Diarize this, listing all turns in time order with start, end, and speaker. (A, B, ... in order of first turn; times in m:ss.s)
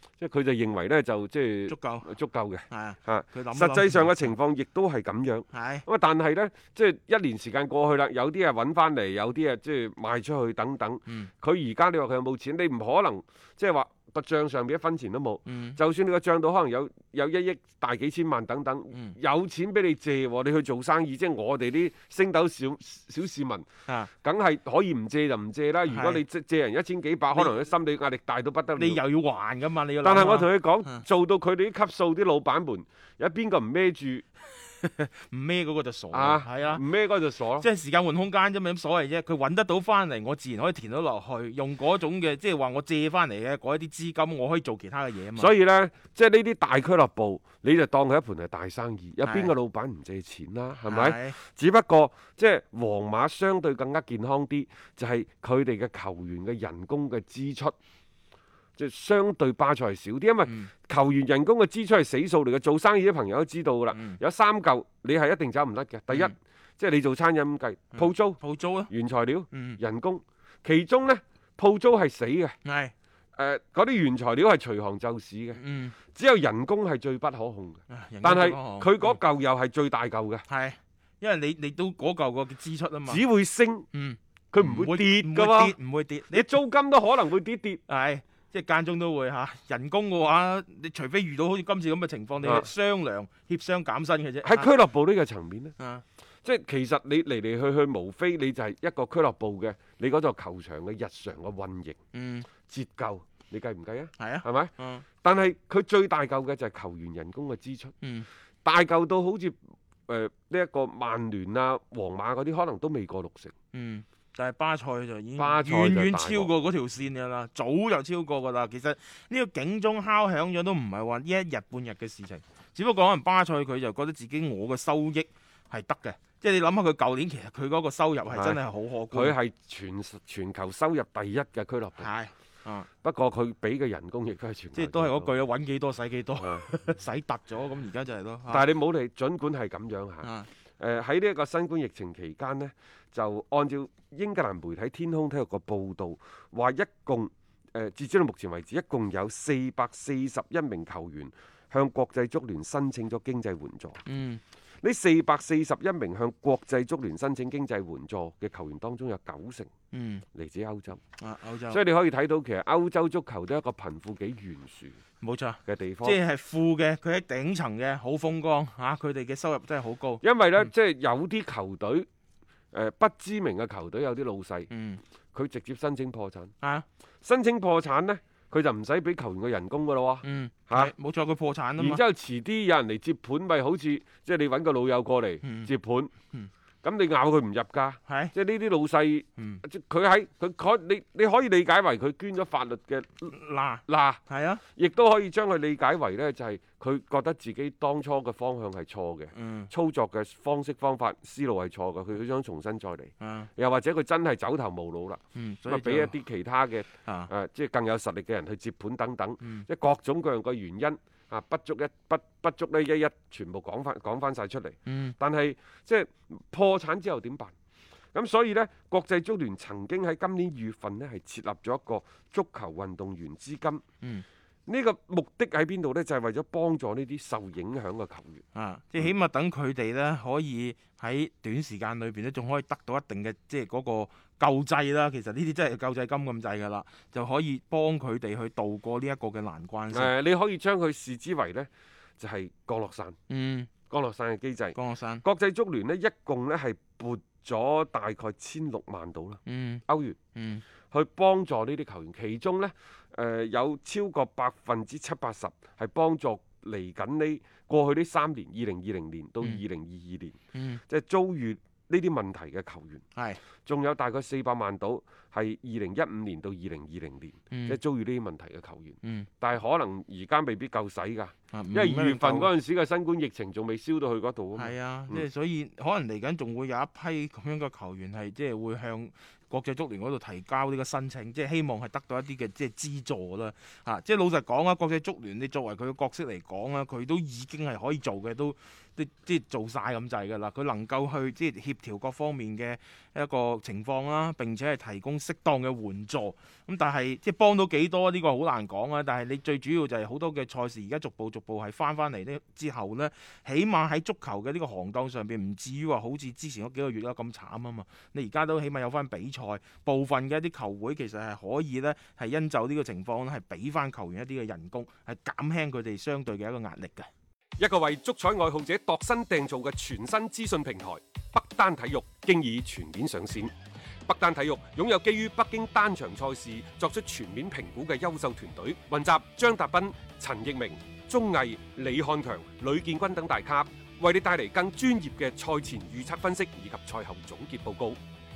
0:00.2-0:29.0 A
0:01.7-0:02.1 B
0:02.7-0:04.3 B
0:05.5-0:05.8 B
0:15.5-0:15.8 B
0:18.9-0:19.2 B
0:25.9-0:26.2 B
0:28.8-0:31.0 B
0:30.0-0:34.2 A
0:34.8-0:36.8 B
0:36.1-0:37.7 A
0:37.6-0:45.5 B
0:45.4-0:57.8 A
0:49.2-0:49.5 B
0:50.9-0:51.4 B
0:58.8-1:12.6 A
1:00.5-1:00.7 B
1:03.9-1:04.2 B
1:07.9-1:08.9 B
1:09.5-1:09.8 B
1:12.6-1:12.9 B
1:13.4-1:15.6 A
1:15.6-1:16.0 B
1:16.1-1:20.5 A
1:17.9-1:19.2 B
1:20.5-1:23.2 B
1:23.1-1:23.9 A
1:23.9-1:26.5 B
1:24.5-1:25.7 A
1:26.3-1:27.8 A
1:27.9-1:34.7 B
1:32.4-1:32.7 A
1:34.4-1:35.7 A
1:35.8-1:36.0 B
1:36.4-1:42.0 A
1:42.1-1:42.5 B
1:42.7-1:44.7 A
1:44.2-1:45.0 B
1:45.2-1:47.9 A
1:48.0-1:48.3 B
1:48.6-1:49.6 A
1:50.1-1:53.5 A
1:53.7-2:09.4 B
1:55.4-1:56.5 A
2:08.3-2:12.1 A
2:12.0-2:12.9 B
2:13.0-2:15.3 A
2:14.8-2:18.7 B
2:16.4-2:16.7 A
2:18.5-2:34.0 A
2:20.2-2:20.5 B
2:34.1-2:34.4 B
2:34.8-2:39.7 A
2:39.9-2:40.2 B
2:40.3-2:41.0 A
2:41.2-2:41.8 B
2:41.7-2:45.0 A
2:45.2-2:50.2 B
2:45.6-2:46.2 A
2:50.2-2:52.1 A
2:52.7-2:54.7 A
2:54.7-2:55.0 B
2:55.3-2:56.5 A
2:57.2-3:00.9 A
3:00.2-3:02.0 B
3:01.8-3:06.1 A
3:05.4-3:05.7 B
3:06.8-3:13.3 A
3:08.1-3:08.4 B
3:09.4-3:09.6 B
3:13.3-3:14.6 B
3:13.9-3:14.2 A
3:14.8-3:37.5 A
3:19.3-3:19.7 B
3:23.2-3:23.5 B
3:25.4-3:26.2 B
3:27.0-3:27.3 B
3:29.4-3:29.7 B
3:34.9-3:35.2 B
3:38.1-3:43.8 A
3:44.7-3:48.4 A
3:48.5-4:00.1 B
3:59.9-4:03.2 A
4:03.3-4:03.7 B
4:03.9-4:10.2 A
4:04.7-4:05.2 B
4:09.5-4:10.6 B
4:10.9-4:20.4 A
4:20.5-4:20.8 B
4:20.9-4:23.0 A
4:23.2-4:23.4 B
4:23.6-4:35.3 A
4:27.5-4:27.8 B
4:29.0-4:29.3 B
4:31.5-4:32.5 B
4:34.6-5:17.1 B
5:17.6-5:23.5 A
5:24.1-5:38.0 A